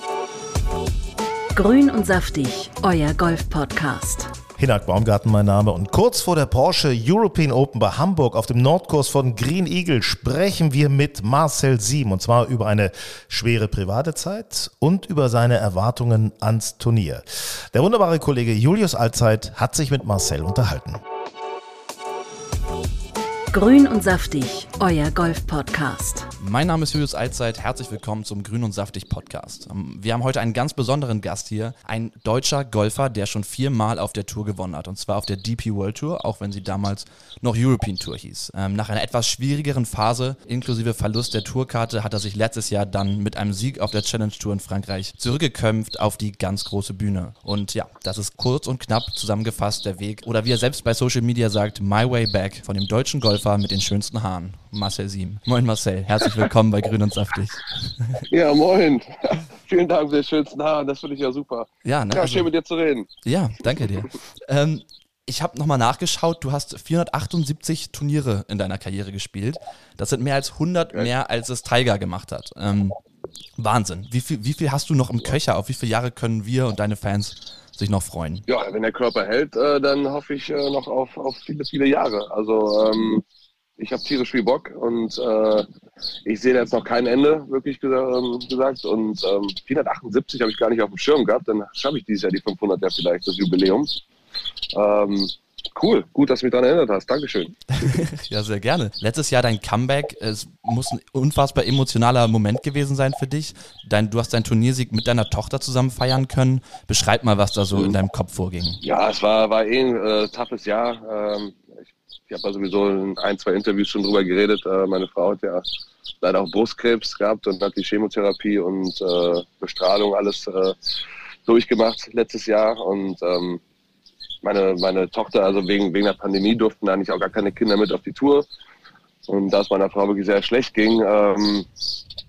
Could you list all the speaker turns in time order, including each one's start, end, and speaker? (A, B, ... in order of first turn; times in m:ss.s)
0:01.5-0:04.3 A
0:04.6-0:21.0 B
0:23.5-0:26.3 A
0:26.4-0:58.2 C
0:58.3-1:03.1 D
1:01.8-1:02.5 C
1:03.2-1:13.0 C
1:13.6-1:18.4 C
1:18.5-1:23.2 D
1:23.8-1:25.6 D
1:26.2-1:33.9 D
1:34.7-1:38.0 D
1:37.8-1:48.8 C
1:48.8-1:51.7 D
1:52.3-1:55.6 D
1:56.2-2:00.7 D
2:01.4-2:03.6 D
2:04.4-2:08.4 D
2:09.3-2:11.7 D